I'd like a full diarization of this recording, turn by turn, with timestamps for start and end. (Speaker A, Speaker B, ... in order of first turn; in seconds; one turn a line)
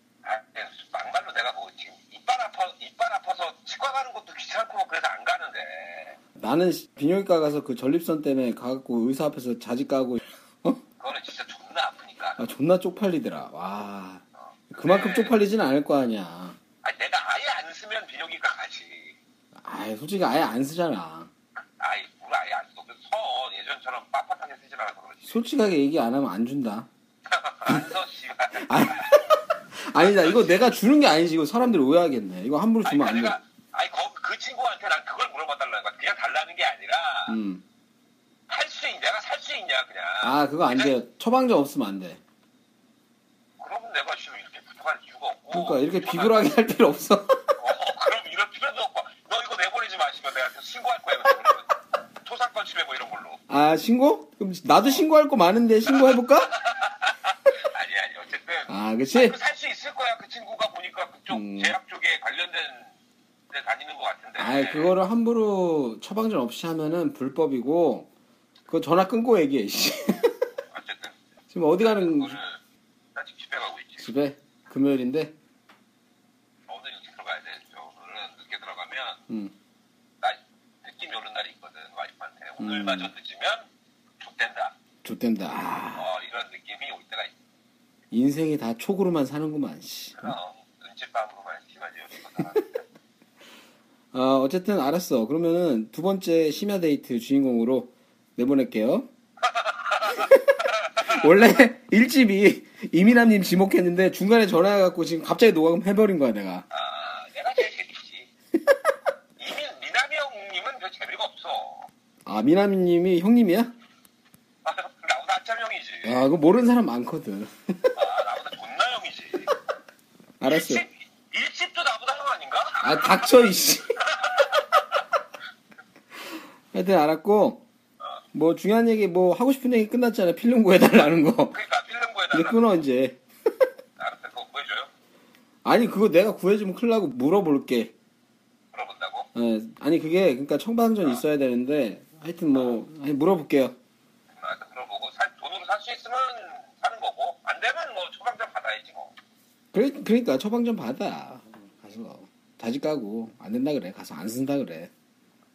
Speaker A: 0.2-6.2
Speaker B: 6.4-10.8
Speaker A: 11.0-12.4
Speaker B: 12.4-16.6
Speaker A: 14.4-15.4
Speaker A: 16.8-19.2
Speaker B: 19.6-21.3
Speaker A: 21.6-25.4
Speaker B: 25.2-26.9
Speaker A: 27.3-29.4
Speaker B: 28.6-29.1
Speaker B: 29.9-33.4
Speaker A: 29.9-30.7
Speaker A: 32.8-37.4
Speaker B: 37.3-37.6
Speaker A: 38.5-41.0
Speaker B: 40.2-42.2
Speaker A: 43.6-46.6
Speaker B: 45.5-47.6
Speaker A: 47.6-53.4
Speaker B: 53.5-56.5
Speaker A: 55.9-62.9
Speaker B: 58.7-59.4
Speaker B: 61.3-61.8
Speaker A: 63.5-64.9
Speaker B: 64.4-68.1
Speaker B: 68.7-70.3
Speaker A: 70.7-71.1
Speaker B: 71.5-72.4
Speaker A: 71.8-72.6
Speaker A: 73.1-74.1
Speaker B: 74.0-75.3
Speaker A: 76.7-79.2
Speaker A: 80.2-83.7
Speaker B: 82.6-83.1
Speaker A: 84.2-84.7
Speaker B: 85.0-86.1
Speaker A: 85.9-87.3
Speaker B: 88.1-90.3
Speaker A: 90.2-92.8
Speaker B: 94.1-99.1
Speaker A: 99.4-101.3
Speaker B: 101.0-106.6
Speaker A: 106.7-108.3
Speaker A: 109.4-111.9
Speaker B: 112.2-113.7
Speaker A: 114.6-116.2
Speaker B: 116.0-117.9
Speaker A: 117.9-119.5
Speaker B: 120.4-120.8
Speaker A: 120.4-125.0
Speaker B: 122.8-124.0
Speaker B: 126.7-127.6
Speaker B: 128.3-131.6
Speaker A: 131.5-132.6
Speaker B: 132.3-133.2
Speaker A: 134.0-134.9
Speaker B: 135.6-137.9
Speaker A: 138.7-139.3
Speaker B: 139.3-143.7
Speaker A: 144.4-149.1
Speaker B: 149.7-154.9